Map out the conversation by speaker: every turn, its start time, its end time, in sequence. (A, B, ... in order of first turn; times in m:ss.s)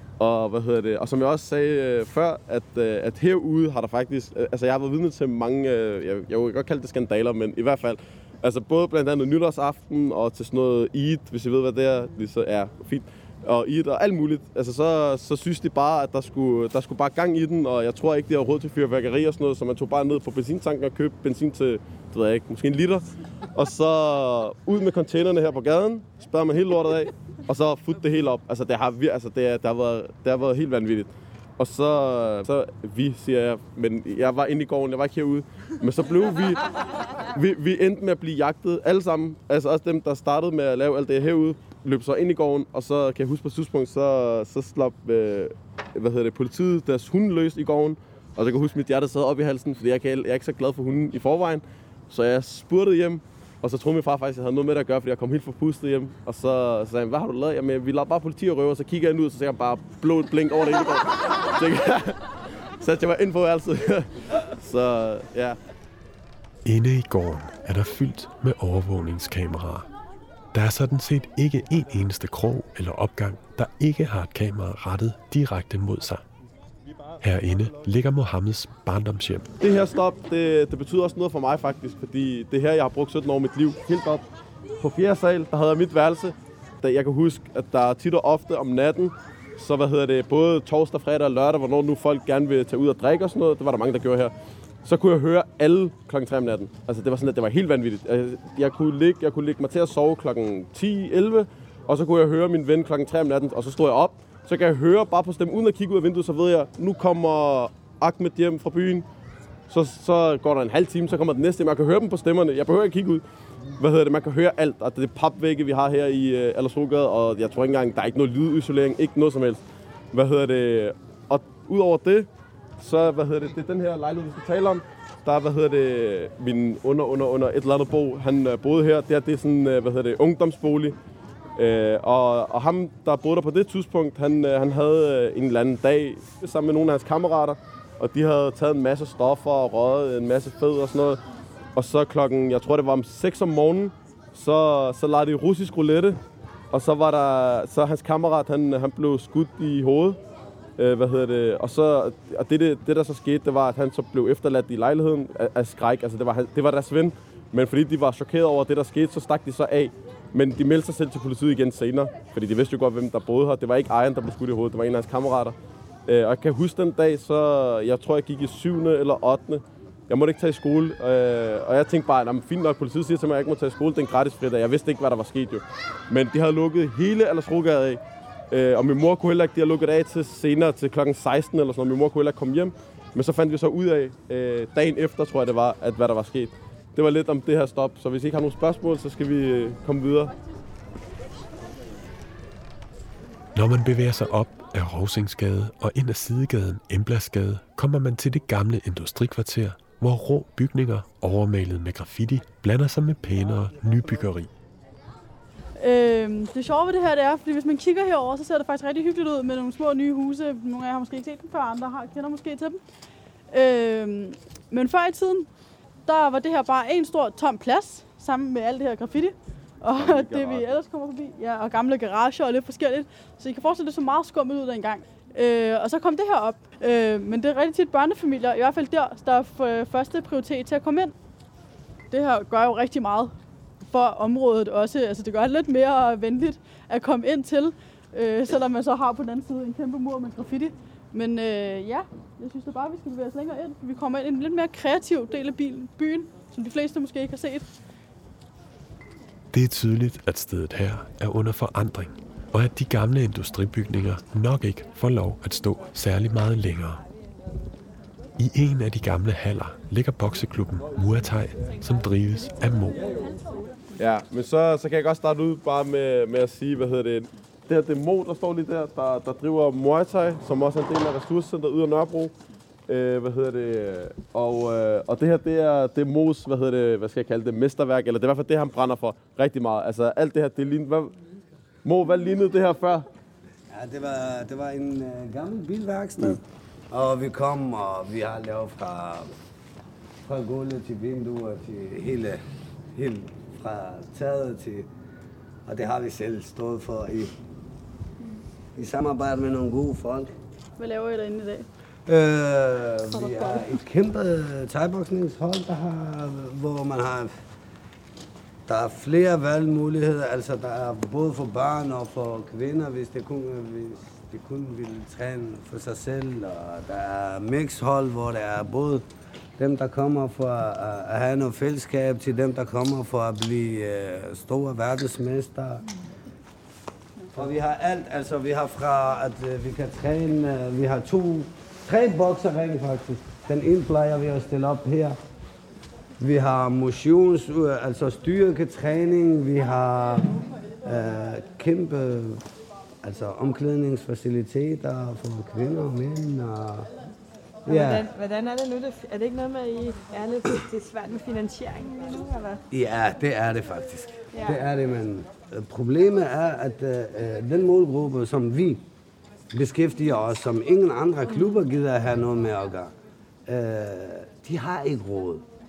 0:00.2-0:36.6 A
0:37.3-1:02.2 A
1:02.8-1:05.6 A
1:06.6-1:09.9 B
1:10.5-1:16.2 B
1:17.2-1:19.5 B
1:19.6-1:24.2 A
1:24.8-1:34.3 A
1:34.8-1:49.1 A
1:49.7-1:53.2 A
1:53.8-2:02.3 A
2:02.8-2:11.0 A
2:11.6-2:21.2 A
2:21.8-2:26.2 A
2:26.7-2:30.2 A
2:30.8-2:45.6 A
2:46.1-3:10.3 A
3:13.6-3:24.5 B
3:25.8-3:32.8 C
3:33.5-3:35.5 C
3:36.1-3:51.1 C
3:40.0-3:40.8 A
3:52.1-4:07.7 C
4:09.5-4:17.0 B
4:18.4-4:23.1 B
4:24.0-4:32.3 A
4:32.9-4:41.1 A
4:41.8-4:43.1 A
4:43.7-4:49.3 D
4:50.3-4:52.4 D
4:53.0-4:54.9 D
4:55.7-4:57.3 D
4:58.8-5:00.3 D
5:00.8-5:01.7 C
5:02.1-5:07.3 D
5:03.1-5:03.8 E
5:08.7-5:19.1 D
5:19.6-5:25.8 D
5:27.3-5:35.2 D
5:36.2-5:40.3 D
5:40.8-5:42.4 D
5:43.0-5:46.9 D
5:47.7-5:52.6 E
5:47.7-5:48.1 D
5:52.7-5:58.8 D
5:54.3-5:54.7 E
5:59.5-6:02.9 D
6:03.5-6:05.4 D